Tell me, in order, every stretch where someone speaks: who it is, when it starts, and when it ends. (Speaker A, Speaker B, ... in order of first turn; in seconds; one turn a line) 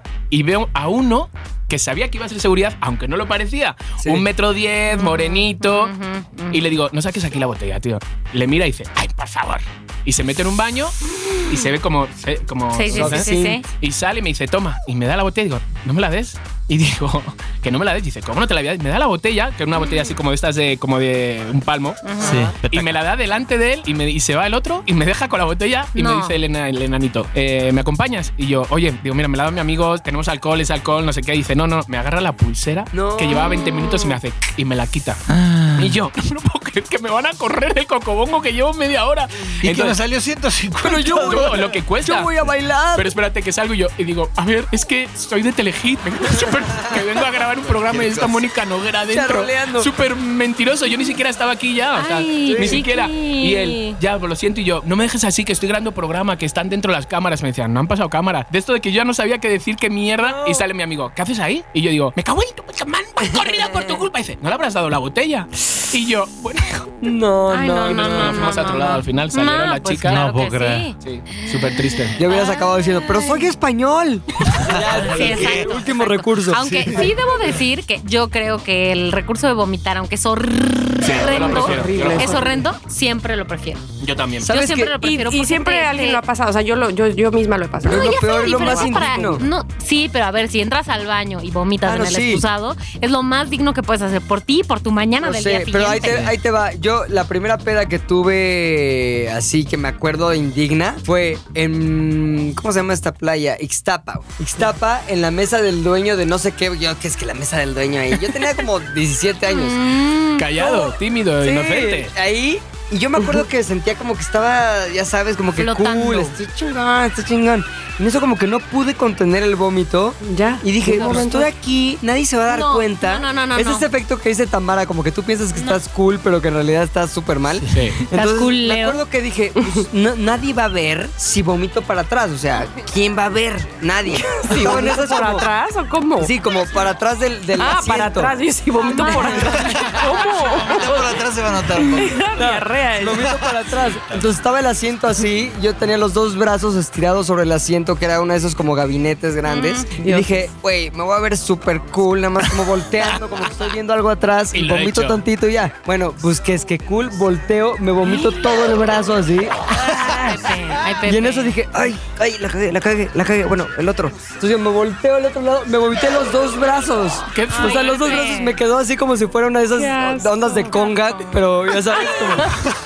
Speaker A: 0.3-5.9
Speaker B: 4.0-4.2
Speaker C: 4.9-6.6
Speaker A: 6.5-35.2
Speaker C: 12.7-13.6
Speaker B: 12.9-13.6
Speaker C: 19.8-20.1
Speaker C: 22.0-22.5
Speaker D: 22.2-22.9
Speaker C: 25.9-26.4
Speaker B: 32.9-33.5
Speaker C: 33.3-34.1
Speaker D: 35.3-36.0
Speaker A: 35.8-40.0
Speaker D: 39.6-41.7
Speaker B: 40.8-43.1
Speaker A: 41.1-42.3
Speaker A: 42.9-67.0
Speaker B: 49.1-49.9
Speaker C: 52.0-54.0
Speaker B: 52.5-52.8
Speaker B: 60.2-60.6
Speaker B: 67.0-68.5
Speaker C: 67.5-73.5
Speaker A: 67.8-70.2
Speaker D: 70.0-70.9
Speaker A: 71.0-72.2
Speaker B: 72.2-76.6
Speaker D: 74.6-75.7
Speaker C: 74.7-83.8
Speaker D: 76.5-77.1
Speaker A: 81.0-82.5
Speaker E: 81.2-82.6
Speaker A: 84.0-84.5
Speaker B: 84.4-85.0
Speaker C: 84.5-86.2
Speaker E: 85.0-89.0
Speaker B: 87.8-89.4
Speaker C: 87.8-96.3
Speaker B: 91.8-92.4
Speaker B: 95.2-109.8
Speaker D: 96.1-96.3
Speaker C: 109.5-110.5
Speaker A: 110.3-112.1
Speaker B: 110.6-135.5
Speaker C: 115.5-116.3
Speaker E: 120.2-121.5
Speaker C: 120.9-121.3
Speaker C: 122.5-123.9
Speaker C: 125.5-125.8
Speaker A: 127.7-128.0
Speaker C: 128.1-129.0
Speaker E: 129.6-129.8
Speaker E: 134.1-136.3
Speaker B: 136.2-138.3
Speaker E: 137.6-141.2
Speaker C: 138.8-139.7
Speaker B: 139.1-139.6
Speaker D: 139.5-142.3
Speaker E: 141.7-143.4
Speaker B: 142.3-172.5
Speaker D: 143.2-143.5
Speaker C: 149.4-149.9
Speaker E: 150.0-150.4
Speaker A: 154.5-155.2
Speaker C: 159.7-161.6
Speaker A: 167.3-168.2
Speaker C: 167.5-168.6
Speaker E: 169.8-170.9
Speaker C: 170.7-171.4
Speaker E: 172.1-172.6